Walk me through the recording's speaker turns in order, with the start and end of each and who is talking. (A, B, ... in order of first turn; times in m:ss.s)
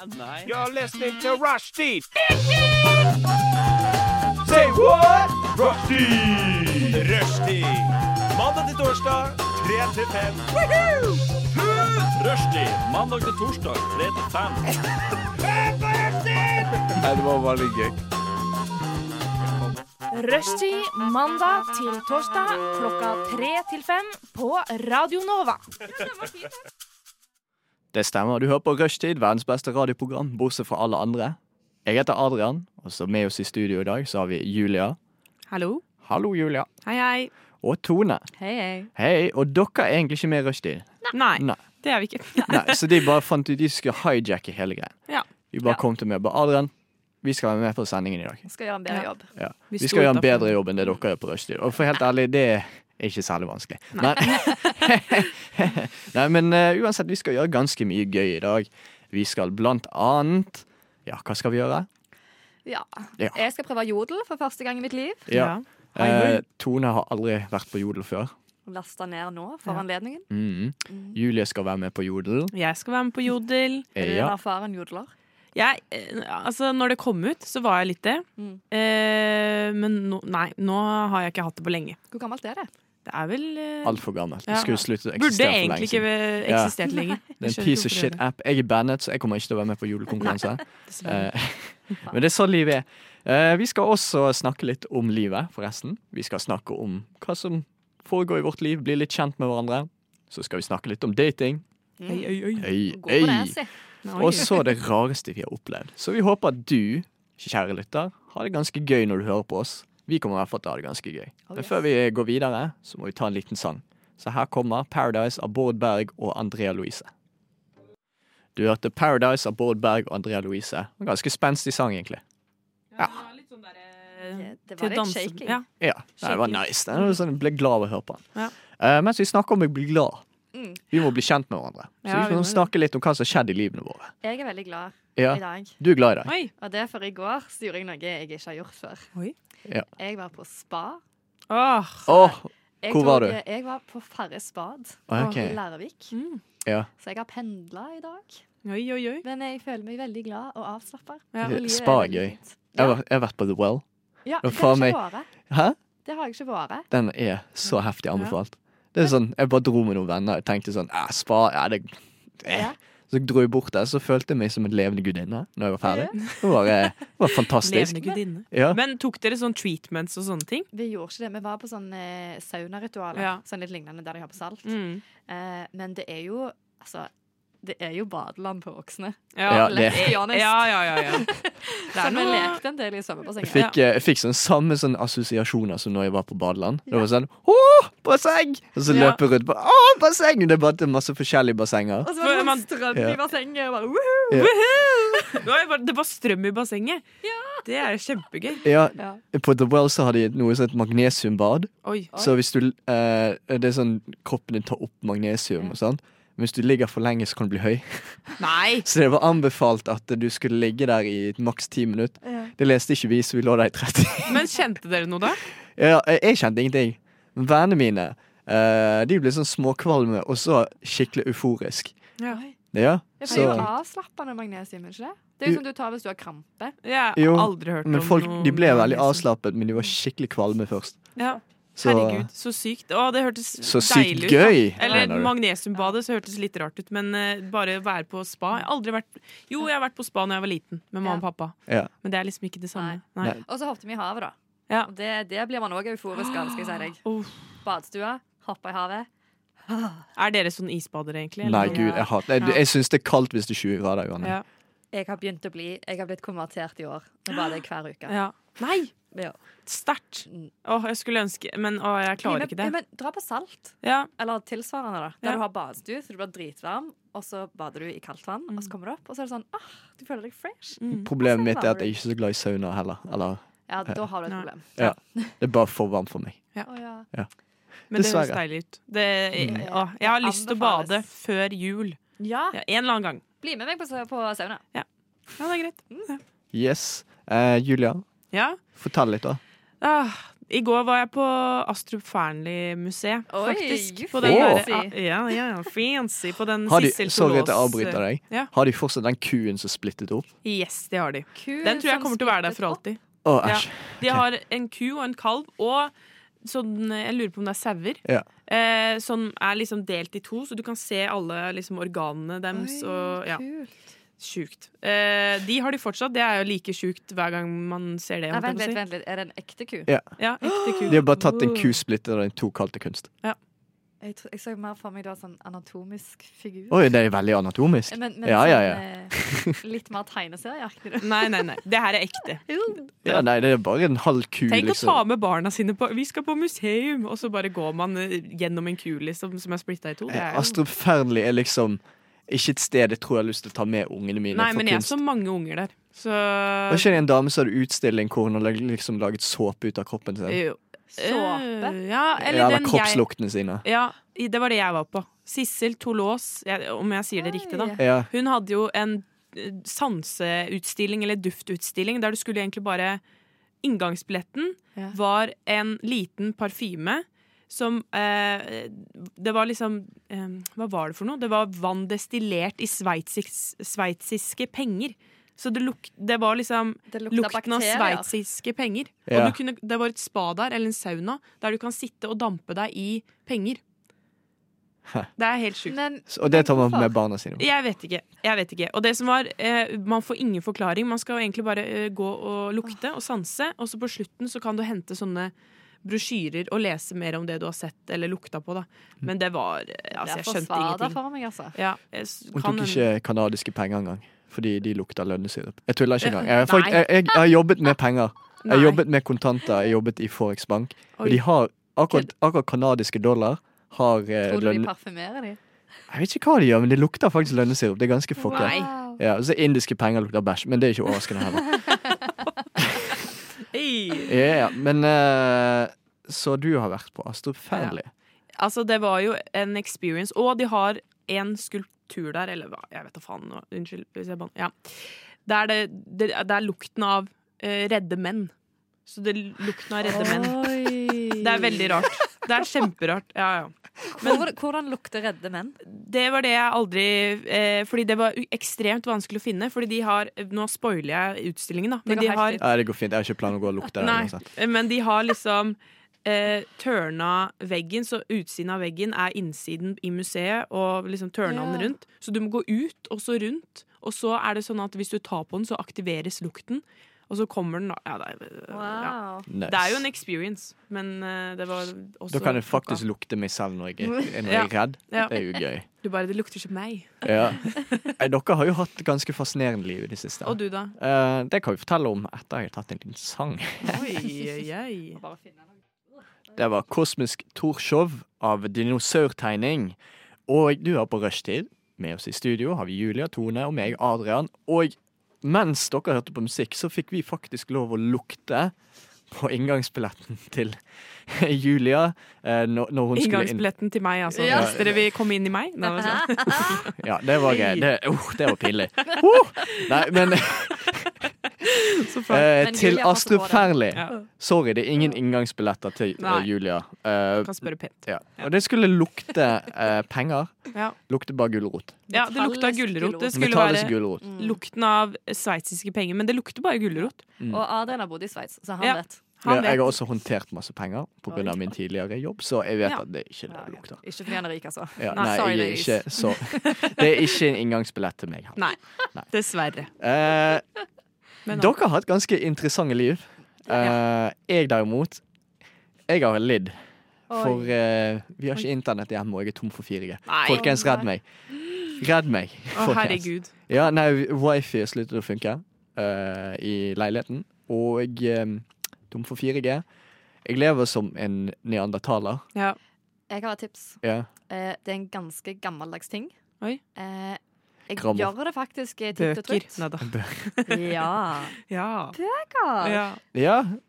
0:00.4-0:02.1 A
0:04.4-0:10.7 A
0:11.5-0:14.7 A
0:16.5-0:18.0 A
0:20.1-0:26.1 B
0:27.9-0:35.0 C
0:35.5-0:35.8 D
0:36.0-0:36.7 C
0:36.8-0:37.3 D
0:37.6-0:38.3 C
0:38.4-0:38.9 E
0:39.0-0:41.6 C
0:41.1-0:43.1 D
0:42.5-0:45.0 C
0:45.5-0:46.7 C
0:47.2-0:48.5 C
0:48.5-0:49.3 E
0:49.4-1:01.9 C
0:49.7-0:50.6 D
0:53.9-0:54.8 D
1:02.7-1:05.3 E
1:05.3-1:08.3 C
1:05.3-1:06.4 D
1:08.7-1:10.3 E
1:10.3-1:12.5 C
1:10.9-1:11.2 E
1:12.5-1:13.9 D
1:14.0-1:14.3 C
1:14.0-1:15.1 E
1:15.6-1:22.0 D
1:22.1-1:22.7 E
1:23.1-1:28.2 D
1:23.8-1:26.8 C
1:27.4-1:41.6 C
1:30.2-1:31.3 D
1:42.0-1:43.7 E
1:42.1-1:42.7 D
1:42.6-1:57.1 C
1:44.0-1:44.6 D
1:51.5-1:51.8 E
1:58.6-2:02.2 C
2:03.0-2:05.6 D
2:03.0-2:03.2 C
2:04.3-2:05.6 E
2:05.8-2:10.2 C
2:06.2-2:07.2 D
2:10.5-2:10.8 E
2:10.9-2:14.1 C
2:12.0-2:12.7 D
2:14.2-2:15.8 E
2:15.2-2:16.4 C
2:16.2-2:16.5 D
2:16.6-2:19.1 E
2:20.0-2:21.0 E
2:21.5-2:22.2 D
2:22.1-2:23.4 C
2:22.8-2:26.2 E
2:25.1-2:25.6 C
2:26.1-2:26.4 D
2:27.0-2:28.4 E
2:28.6-2:29.2 D
2:29.2-2:33.0 E
2:31.4-2:33.8 C
2:34.2-2:35.3 E
2:34.4-2:35.0 C
2:35.5-2:35.8 C
2:36.0-2:36.9 E
2:36.9-2:48.8 C
2:42.5-2:42.8 E
2:45.8-2:46.3 E
2:46.2-2:46.6 D
2:47.2-2:50.7 D
2:50.7-2:54.7 E
2:53.2-2:53.4 D
2:54.7-2:55.0 D
2:55.2-2:57.1 E
2:57.6-3:03.7 E
2:59.4-3:01.3 D
2:59.5-3:00.3 C
3:01.9-3:02.6 D
3:03.4-3:12.1 C
3:08.9-3:09.2 D
3:12.0-3:15.3 E
3:12.2-3:12.7 D
3:14.3-3:17.0 D
3:17.2-3:17.6 E
3:17.6-3:18.6 D
3:18.6-3:34.5 C
3:21.8-3:22.1 D
3:28.4-3:28.9 D
3:32.2-3:32.5 E
3:34.3-3:35.4 D
3:35.7-3:42.0 C
3:42.3-3:42.6 E
3:42.7-3:43.7 C
3:43.2-3:46.8 E
3:43.2-3:43.7 D
3:46.8-3:49.2 D
3:47.2-3:51.1 C
3:51.2-4:03.4 D
3:51.8-3:52.3 C
3:53.6-3:55.3 C
3:54.8-3:55.1 E
4:02.8-4:07.0 E
4:06.2-4:07.3 D
4:07.6-4:09.1 E
4:09.7-4:10.1 E
4:10.2-4:12.6 D
4:11.4-4:14.4 C
4:11.6-4:12.1 E
4:14.9-4:18.2 E
4:18.1-4:18.9 D
4:19.1-4:19.4 E
4:19.7-4:22.7 D
4:22.2-4:31.9 E
4:23.8-4:24.1 D
4:30.8-4:31.1 D
4:30.9-4:34.0 C
4:33.7-4:35.3 E
4:34.8-4:36.5 C
4:36.6-4:37.1 E
4:37.9-4:38.4 C
4:37.9-4:42.0 D
4:39.4-4:41.0 E
4:42.2-4:42.6 E
4:42.5-4:43.2 D
4:43.4-4:44.6 E
4:45.4-4:46.2 D
4:46.5-4:48.0 C
4:48.3-4:48.6 D
4:48.8-4:49.4 C
4:49.8-4:58.5 D
4:53.3-4:55.0 E
4:54.2-4:54.6 C
4:56.7-5:00.3 C
5:00.4-5:05.9 D
5:01.4-5:02.8 E
5:03.2-5:04.2 C
5:06.4-5:13.4 D
5:12.5-5:13.7 E
5:14.2-5:18.8 D
5:18.3-5:21.1 E
5:19.9-5:20.2 C
5:20.2-5:21.7 D
5:20.9-5:23.1 C
5:24.0-5:26.9 E
5:26.7-5:29.6 C
5:27.9-5:31.4 E
5:31.0-5:32.5 D
5:32.5-5:32.9 E
5:33.0-5:35.0 C
5:34.5-5:40.6 D
5:40.1-5:45.0 C
5:44.3-5:46.9 D
5:46.7-5:50.4 C
5:50.3-5:53.0 D
5:50.9-5:51.8 E
5:52.2-5:53.6 C
5:53.6-6:03.0 D
5:57.2-5:57.8 E
5:57.8-5:58.1 C
6:03.6-6:23.6 D
6:16.9-6:18.1 E
6:19.1-6:19.4 C
6:25.2-6:25.8 D
6:25.7-6:26.9 E
6:26.1-6:27.5 C
6:27.4-6:35.3 D
6:35.8-6:41.0 D
6:39.9-6:41.6 E
6:41.5-6:42.9 D
6:42.3-6:54.7 C
6:46.0-6:46.9 D
6:48.4-6:48.8 D
6:51.0-6:51.2 D
6:54.3-6:55.4 E
6:55.9-7:01.7 C
6:58.2-6:59.0 E
6:58.3-6:58.7 D
7:01.6-7:02.1 E
7:02.6-7:02.9 C
7:03.5-7:04.2 D
7:04.0-7:07.9 C
7:08.4-7:18.3 D
7:18.9-7:24.3 D
7:19.8-7:22.1 E
7:24.0-7:25.6 E
7:25.6-7:32.4 D
7:31.9-7:32.4 E
7:32.4-7:34.2 C
7:33.8-7:52.8 D
7:41.2-7:41.7 E
7:48.5-7:49.3 E
7:49.3-7:49.9 C
7:52.1-7:55.6 C
7:54.2-7:57.8 D
7:57.0-8:03.8 C
8:00.2-8:00.7 D
8:03.6-8:05.0 D
8:05.0-8:05.4 E
8:06.3-8:18.5 C
8:19.1-8:23.4 C
8:22.9-8:27.7 D
8:24.2-8:24.6 E
8:24.2-8:24.8 C
8:25.6-8:26.6 E
8:26.6-8:31.0 C
8:31.5-8:32.3 D
8:32.1-8:41.8 C
8:32.2-8:34.0 E
8:36.0-8:36.3 D
8:37.2-8:37.8 D
8:41.9-8:43.2 E
8:41.9-8:47.0 D
8:43.1-8:44.1 C
8:44.0-8:44.4 E
8:47.3-8:49.0 E
8:48.6-8:49.8 D
8:49.2-8:53.8 C
8:51.1-8:51.5 E
8:53.3-8:57.1 E
8:54.8-8:59.1 C
8:54.9-8:55.8 D
8:58.4-8:59.7 D
8:59.8-9:00.4 C
9:01.3-9:01.5 D
9:01.3-9:05.0 C
9:03.5-9:03.8 E
9:05.9-9:06.6 C
9:07.1-9:07.5 E
9:07.1-9:11.0 C
9:10.1-9:10.6 D
9:10.3-9:10.9 E
9:11.7-9:19.6 C
9:12.5-9:13.3 D
9:20.2-9:22.2 C
9:23.1-9:26.1 E
9:23.8-9:24.1 C
9:26.8-9:29.6 E
9:27.8-9:28.1 C
9:29.0-9:30.6 D
9:29.8-9:30.3 C
9:30.5-9:31.4 E
9:31.5-9:32.0 D
9:31.9-9:32.8 E
9:32.6-9:33.0 D
9:33.1-9:33.6 C